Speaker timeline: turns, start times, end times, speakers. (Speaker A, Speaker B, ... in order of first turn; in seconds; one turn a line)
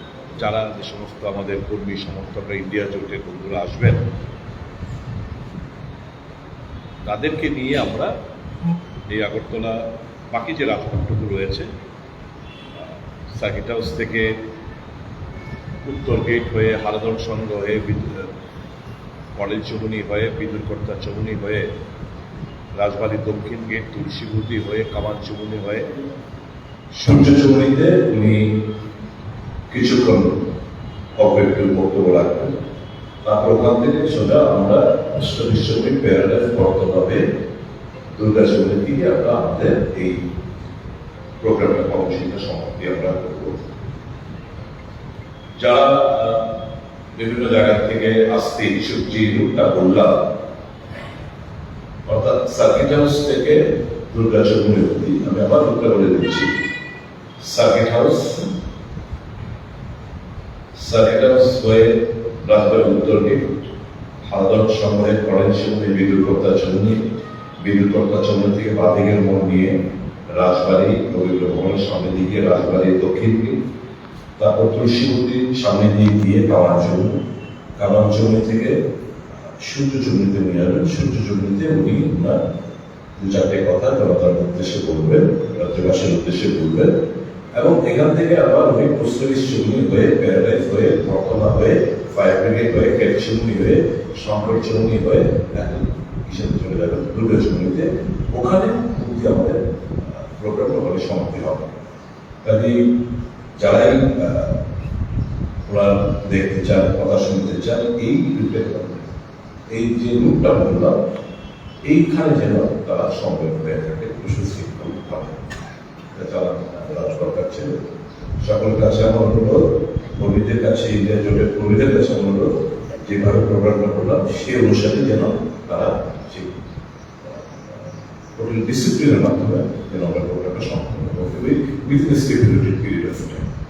Speaker A: 0.4-4.0
Speaker A: 7.0-8.1
Speaker A: 9.1-11.7
Speaker A: 12.8-14.3
Speaker A: 15.8-18.3
Speaker A: 19.4-21.7
Speaker A: 22.8-25.9
Speaker A: 27.0-28.5
Speaker A: 29.7-30.4
Speaker A: 31.2-32.5
Speaker A: 33.2-37.2
Speaker A: 38.1-40.2
Speaker A: 41.4-43.5
Speaker A: 45.6-46.5
Speaker A: 47.2-50.2
Speaker A: 52.1-56.5
Speaker A: 57.4-58.5
Speaker A: 60.7-63.5
Speaker A: 64.2-67.0
Speaker A: 67.6-69.8
Speaker A: 70.3-73.6
Speaker A: 74.4-77.2
Speaker A: 77.8-78.8
Speaker A: 79.6-82.4
Speaker A: 83.2-86.9
Speaker A: 87.5-101.7
Speaker A: 102.4-102.8
Speaker A: 103.6-104.5
Speaker A: 105.7-109.0
Speaker A: 109.7-111.0
Speaker A: 111.8-115.4
Speaker A: 116.1-117.7
Speaker A: 118.4-119.7
Speaker A: 120.2-126.5
Speaker A: 127.2-133.4